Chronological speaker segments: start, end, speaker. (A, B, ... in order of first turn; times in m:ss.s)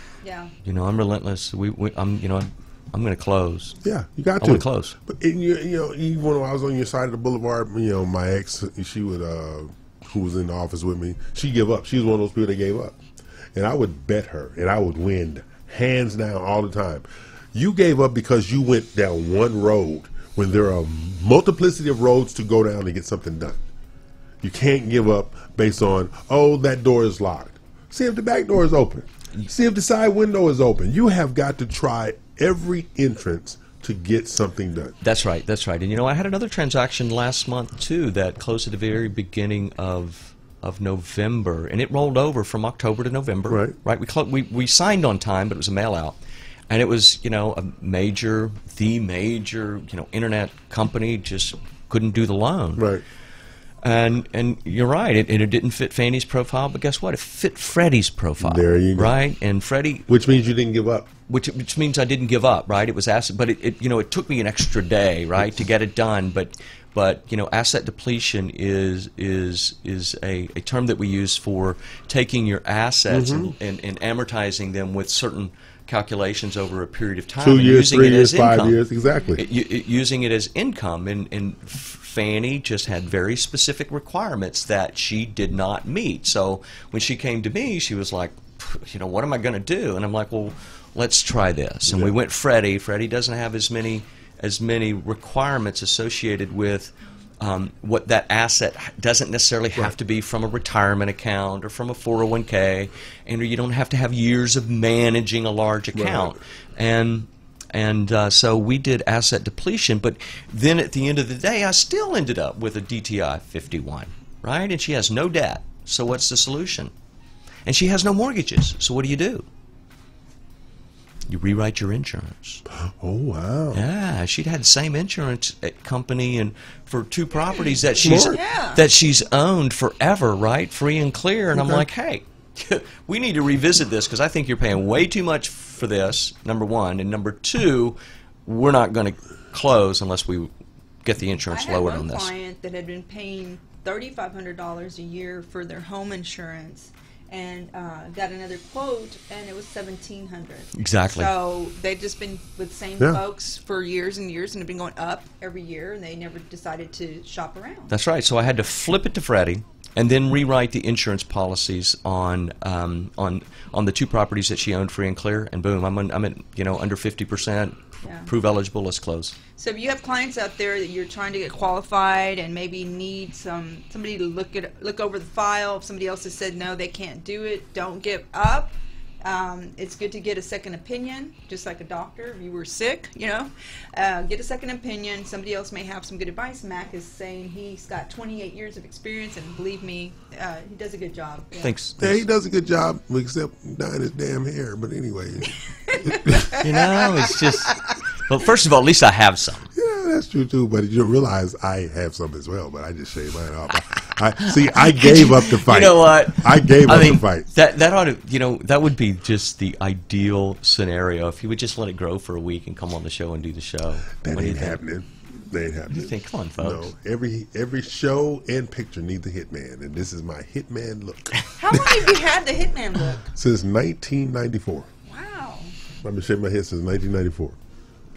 0:00.2-0:00.5 A
0:00.6-0:03.8 B
0:03.8-0:13.0 C
0:04.4-0:05.0 B
0:13.6-0:23.6 C
0:24.4-0:35.0 C
0:35.0-0:46.2 B
0:43.5-0:43.8 C
0:46.7-0:52.9 B
0:52.8-0:53.0 C
0:53.8-1:00.1 B
0:58.4-0:59.2 C
1:00.1-1:01.1 C
1:01.3-1:18.8 B
1:13.1-1:13.5 C
1:17.4-1:19.4 C
1:19.4-1:56.9 B
1:31.9-1:32.2 C
1:46.0-1:46.4 C
1:57.7-1:59.5 B
2:01.3-2:02.6 B
2:02.9-2:03.8 C
2:03.7-2:20.5 B
2:08.0-2:08.4 C
2:08.1-2:08.8 A
2:11.5-2:11.9 C
2:21.0-2:22.3 B
2:21.5-2:37.9 A
2:30.8-2:31.3 B
2:37.9-2:49.4 B
2:48.0-2:48.3 A
2:49.6-3:11.7 A
3:11.6-3:12.2 B
3:12.0-3:16.6 C
3:15.9-3:17.7 A
3:16.6-3:19.7 B
3:19.8-3:27.5 C
3:24.4-3:34.8 B
3:34.2-3:41.8 C
3:35.9-3:36.9 B
3:41.6-3:43.3 A
3:43.3-3:44.9 C
3:45.1-3:45.8 A
3:46.0-3:47.6 C